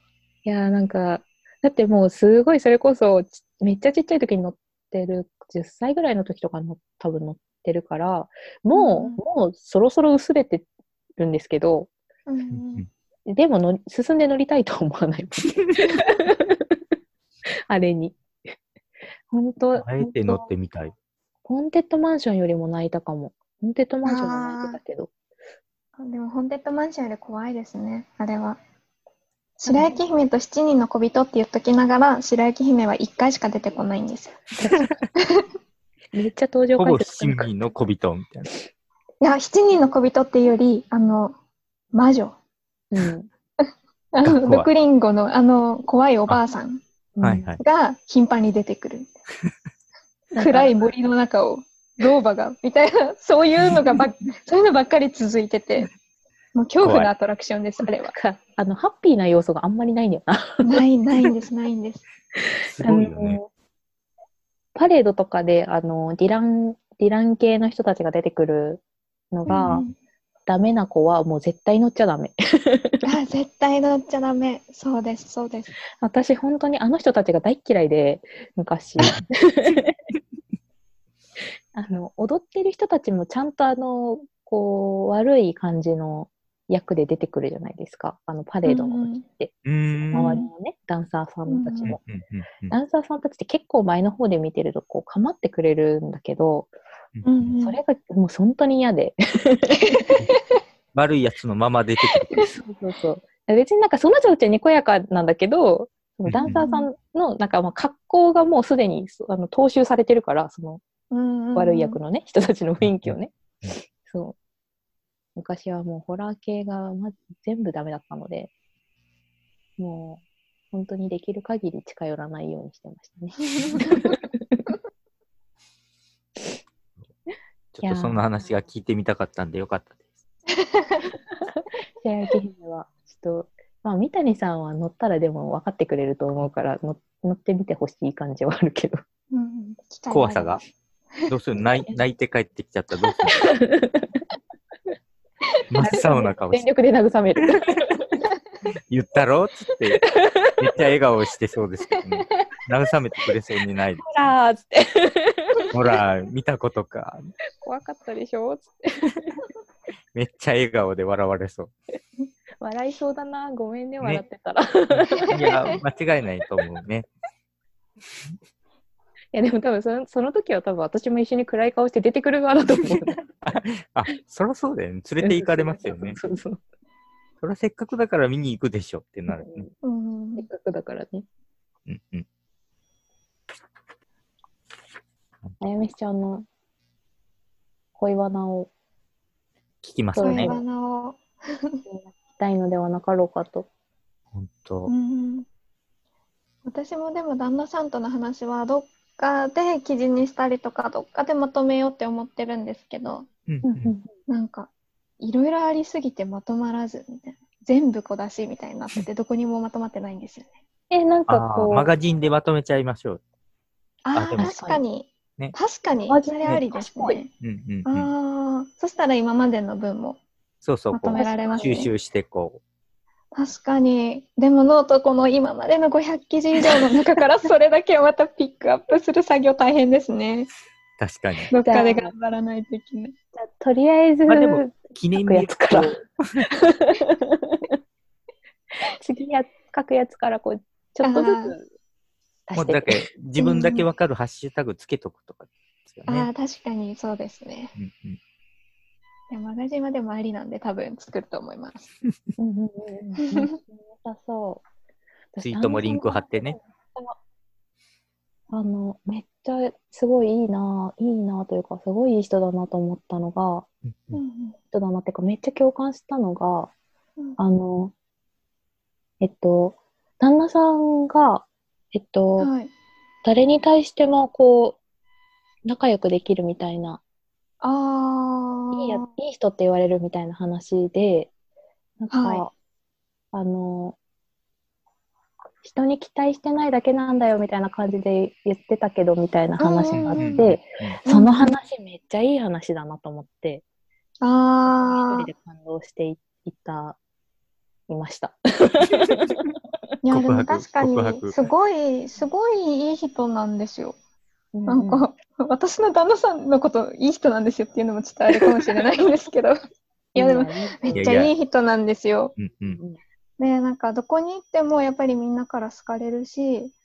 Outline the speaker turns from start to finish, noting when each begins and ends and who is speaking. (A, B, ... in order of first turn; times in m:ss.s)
0:00.4-0:11.9 A
0:08.7-0:09.2 B
0:12.3-0:12.8 B
0:12.5-0:12.9 C
0:13.3-0:16.8 A
0:17.7-0:18.2 A
0:19.3-0:20.5 A
0:19.8-0:20.9 C
0:21.4-0:25.1 A
0:24.0-0:24.8 B
0:26.0-0:28.6 B
0:29.6-0:34.5 B
0:29.7-0:30.0 A
0:34.6-0:34.9 A
0:36.1-0:37.5 A
0:36.8-0:38.5 C
0:39.2-0:41.3 B
0:41.9-0:42.3 B
0:42.9-0:43.3 A
0:43.6-0:46.8 B
0:44.2-0:44.7 C
0:47.2-0:47.5 A
0:47.2-0:47.6 C
0:47.6-0:49.1 B
0:50.3-0:50.8 A
0:50.4-0:55.9 B
0:56.5-0:58.1 B
0:56.8-0:57.1 C
0:58.0-1:00.8 A
1:00.6-1:02.0 B
1:02.4-1:03.5 A
1:02.6-1:03.4 C
1:04.7-1:09.8 A
1:09.5-1:09.9 B
1:10.4-1:13.0 A
1:13.0-1:15.7 B
1:16.0-1:20.0 A
1:19.0-1:19.2 C
1:21.7-1:29.5 A
1:28.6-1:29.2 B
1:29.6-1:30.4 C
1:30.1-1:30.5 B
1:30.1-1:32.0 A
1:31.5-1:32.0 B
1:31.9-1:32.7 C
1:32.7-1:36.7 A
1:37.1-1:37.5 C
1:37.2-1:37.8 B
1:37.6-1:40.0 A
1:39.9-1:40.3 B
1:40.9-1:42.4 C
1:42.3-1:50.8 A
1:46.3-1:46.6 C
1:46.5-1:46.9 B
1:51.1-1:52.0 B
1:51.5-1:54.4 A
1:52.8-1:53.7 C
1:55.4-1:58.5 A
1:59.8-2:04.7 A
2:07.7-2:10.0 C
2:07.8-2:08.2 A
2:10.5-2:11.1 B
2:11.4-2:19.0 A
2:19.3-2:20.6 B
2:20.1-2:20.6 C
2:21.3-2:23.4 C
2:23.3-2:24.2 A
2:25.7-2:26.7 C
2:25.8-2:28.2 A
2:28.9-2:34.3 C
2:30.0-2:30.6 A
2:31.9-2:32.5 B
2:34.0-2:35.7 A
2:35.7-2:37.3 C
2:37.6-2:39.4 A
2:40.1-2:41.7 C
2:42.6-2:45.4 A
2:44.9-2:47.1 C
2:45.1-2:45.8 B
2:49.3-2:53.2 A
2:53.2-2:56.2 C
2:55.2-2:56.6 A
2:57.4-2:59.7 C
2:59.3-2:59.7 A
2:59.8-3:00.5 B
3:00.4-3:01.2 A
3:01.8-3:02.2 C
3:05.6-3:06.5 A
3:08.0-3:08.7 A
3:09.8-3:10.5 C
3:10.1-3:10.6 A
3:10.2-3:11.8 B
3:11.8-3:13.7 A
3:14.3-3:14.9 C
3:14.9-3:15.5 B
3:16.6-3:23.3 B
3:23.5-3:23.9 C
3:23.6-3:24.1 A
3:24.3-3:30.5 B
3:30.9-3:31.9 A
3:31.3-3:33.2 C
3:34.0-3:37.3 B
3:34.1-3:34.5 C
3:34.4-3:34.8 A
3:36.1-3:37.2 A
3:37.4-3:38.1 C
3:37.8-3:40.2 B
3:40.6-3:42.6 C
3:40.9-3:41.9 B
3:41.1-3:41.9 A
3:43.3-3:50.5 B
3:51.0-3:51.5 C
3:51.5-3:53.1 B
3:51.6-3:52.1 A
3:53.4-3:57.8 A
3:54.3-3:56.4 C
3:58.9-4:01.7 A
4:01.0-4:01.5 B
4:02.5-4:03.1 A
4:02.6-4:06.3 C
4:03.4-4:03.8 B
4:06.1-4:07.7 B
4:07.8-4:08.2 C
4:09.3-4:11.9 B
4:12.4-4:14.6 A
4:15.3-4:17.2 A
4:15.4-4:16.6 C
4:18.5-4:23.7 A
4:23.8-4:24.2 C
4:24.1-4:24.6 B
4:24.7-4:26.7 A
4:27.4-4:27.9 A
4:29.2-4:32.5 A
4:32.4-4:32.7 B
4:33.2-4:34.8 A
4:35.6-4:37.0 A
4:37.6-4:39.1 B
4:38.7-4:41.3 A
4:42.0-4:42.5 A
4:42.1-4:42.4 B
4:43.3-4:44.0 A
4:45.6-4:53.6 A
4:49.6-4:50.5 B
4:50.2-4:51.0 C
4:51.0-4:51.5 B
4:54.2-4:55.3 B
4:54.7-4:57.0 A
4:57.9-4:59.4 A
5:00.0-5:04.0 B
5:00.1-5:01.4 C
5:04.5-5:05.0 A
5:04.7-5:09.6 B
5:10.1-5:12.4 B
5:10.1-5:11.1 A
5:10.9-5:11.3 C
5:12.4-5:12.8 C
5:12.7-5:13.0 A
5:13.4-5:16.7 B